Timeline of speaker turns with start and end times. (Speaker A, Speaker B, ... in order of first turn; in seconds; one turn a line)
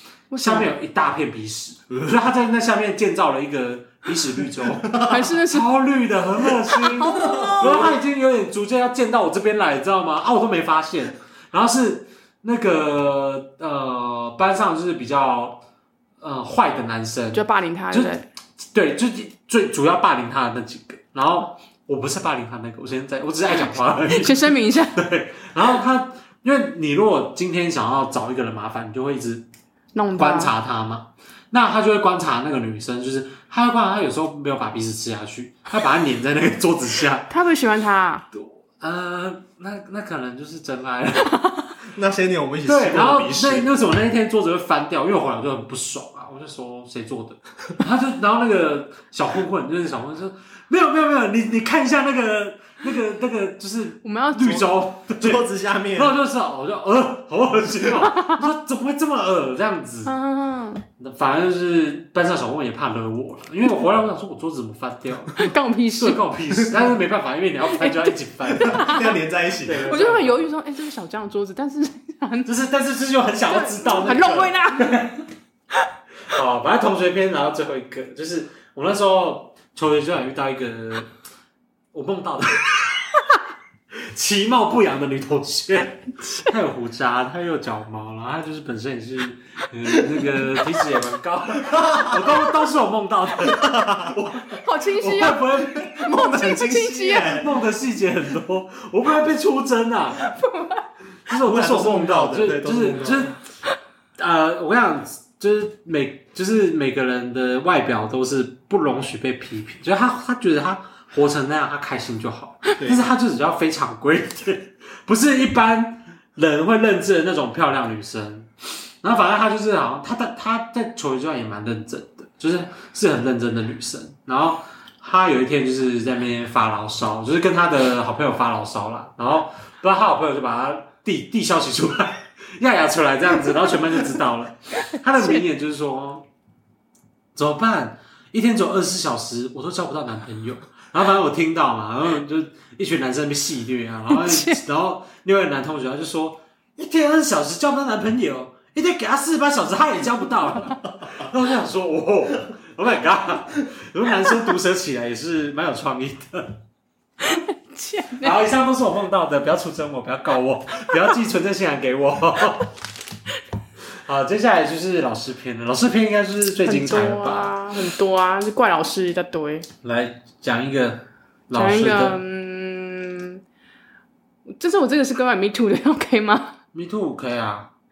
Speaker A: 0.3-0.7
Speaker B: 0.4-15.6
Speaker A: 4.9-5.7
Speaker A: 6.8-7.9
Speaker C: 7.2-7.9
Speaker B: 16.2-18.1
Speaker A: 17.3-18.3
Speaker B: 18.7-29.4
Speaker A: 24.1-25.0
Speaker A: 29.9-30.5
Speaker B: 30.1-37.3
Speaker A: 37.3-38.2
Speaker B: 38.3-41.4
Speaker C: 41.9-43.7
Speaker B: 42.6-60.1
Speaker A: 54.0-54.7
Speaker C: 55.2-56.1
Speaker A: 57.9-58.5
Speaker A: 60.0-60.8
Speaker B: 61.0-65.4
Speaker A: 65.3-66.2
Speaker B: 66.0-69.0
Speaker A: 67.7-69.2
Speaker C: 68.5-69.9
Speaker B: 69.6-70.5
Speaker A: 69.8-72.5
Speaker B: 72.5-75.2
Speaker A: 73.4-75.1
Speaker B: 76.3-81.1
Speaker B: 81.9-82.9
Speaker B: 84.1-96.0
Speaker C: 91.7-92.2
Speaker C: 93.4-94.1
Speaker A: 94.5-97.4
Speaker C: 95.8-97.5
Speaker B: 97.2-100.3
Speaker A: 100.2-100.9
Speaker B: 101.3-103.4
Speaker C: 101.4-103.3
Speaker B: 104.2-136.2
Speaker A: 135.1-135.4
Speaker B: 137.3-156.6
Speaker A: 144.1-144.6
Speaker A: 157.2-158.3
Speaker B: 158.2-162.7
Speaker B: 164.0-167.6
Speaker A: 166.6-169.7
Speaker B: 169.8-172.2
Speaker A: 171.5-173.4
Speaker A: 174.6-176.5
Speaker B: 176.7-177.7